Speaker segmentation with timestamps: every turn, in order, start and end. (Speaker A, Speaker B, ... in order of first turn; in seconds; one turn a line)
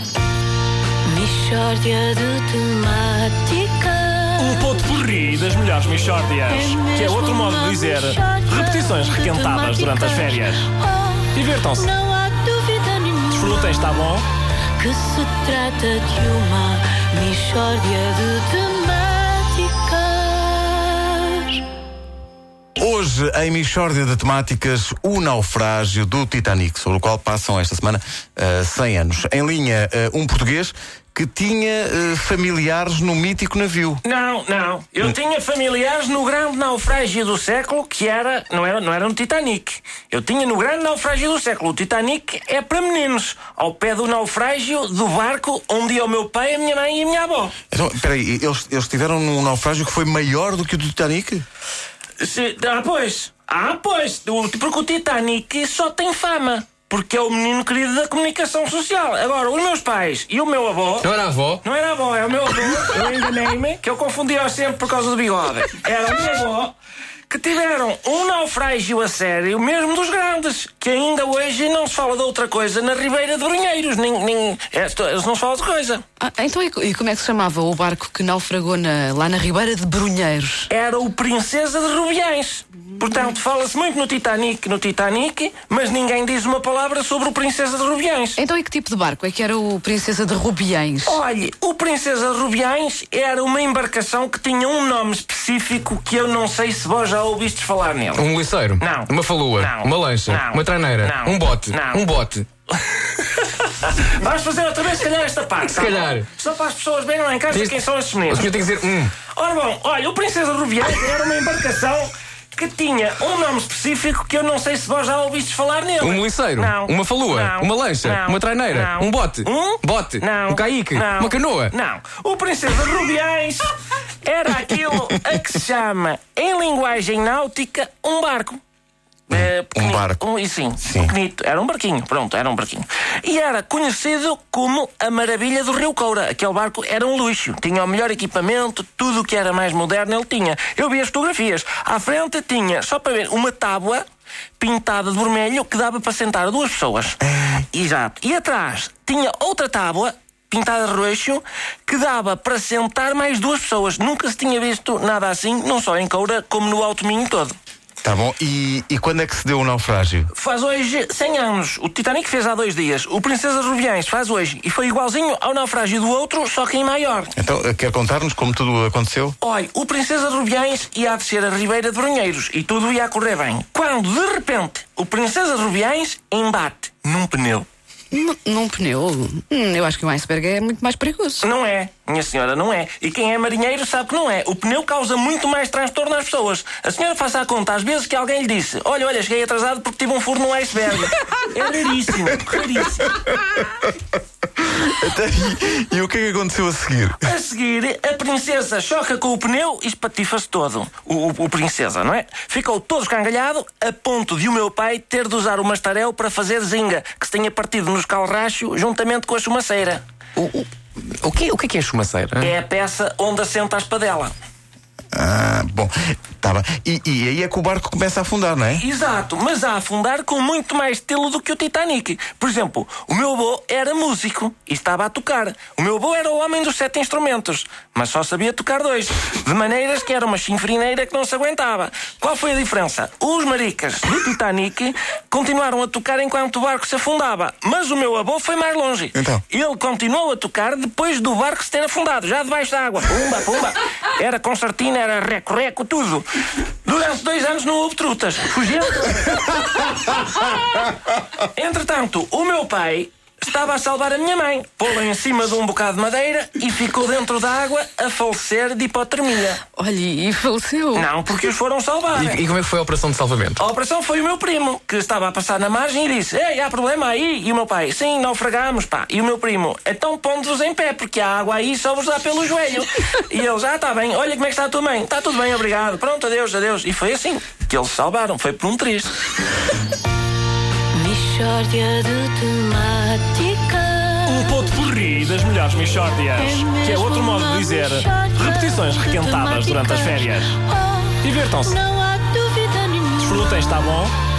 Speaker A: 1.1-4.7
Speaker B: 4.4-10.7
Speaker A: 6.5-14.1
Speaker B: 11.3-11.9
Speaker B: 13.3-14.3
Speaker A: 14.8-21.6
Speaker C: 22.8-34.0
Speaker D: 34.0-47.5
Speaker C: 47.7-51.4
Speaker D: 52.2-61.1
Speaker E: 61.0-61.6
Speaker D: 61.6-66.8
Speaker D: 67.3-76.0
Speaker F: 76.2-80.7
Speaker D: 80.7-88.4
Speaker F: 88.4-91.2
Speaker D: 91.0-98.3
Speaker E: 98.2-102.5
Speaker D: 98.8-102.1
Speaker D: 102.9-108.5
Speaker E: 105.7-106.3
Speaker E: 107.5-109.2
Speaker D: 109.3-123.7
Speaker E: 116.0-121.8
Speaker D: 124.2-128.6
Speaker D: 129.3-144.0
Speaker C: 129.3-130.2
Speaker C: 130.8-131.1
Speaker D: 144.6-147.2
Speaker C: 147.2-147.6
Speaker D: 147.7-157.6
Speaker C: 158.0-160.3
Speaker D: 160.3-167.3
Speaker C: 167.4-169.4
Speaker D: 169.4-177.7
Speaker F: 178.1-181.5
Speaker D: 181.4-193.2
Speaker C: 194.6-197.3
Speaker D: 197.2-210.0
Speaker E: 210.4-210.7
Speaker E: 211.2-212.5
Speaker D: 212.4-214.3
Speaker C: 215.1-218.8
Speaker D: 218.8-246.3
Speaker C: 239.2-239.4
Speaker D: 246.8-259.6
Speaker F: 259.8-261.1
Speaker D: 260.9-262.4
Speaker E: 262.1-263.6
Speaker D: 263.6-279.2
Speaker A: 280.9-284.6
Speaker B: 284.3-290.6
Speaker A: 286.4-293.7
Speaker B: 291.2-291.8
Speaker B: 293.2-294.1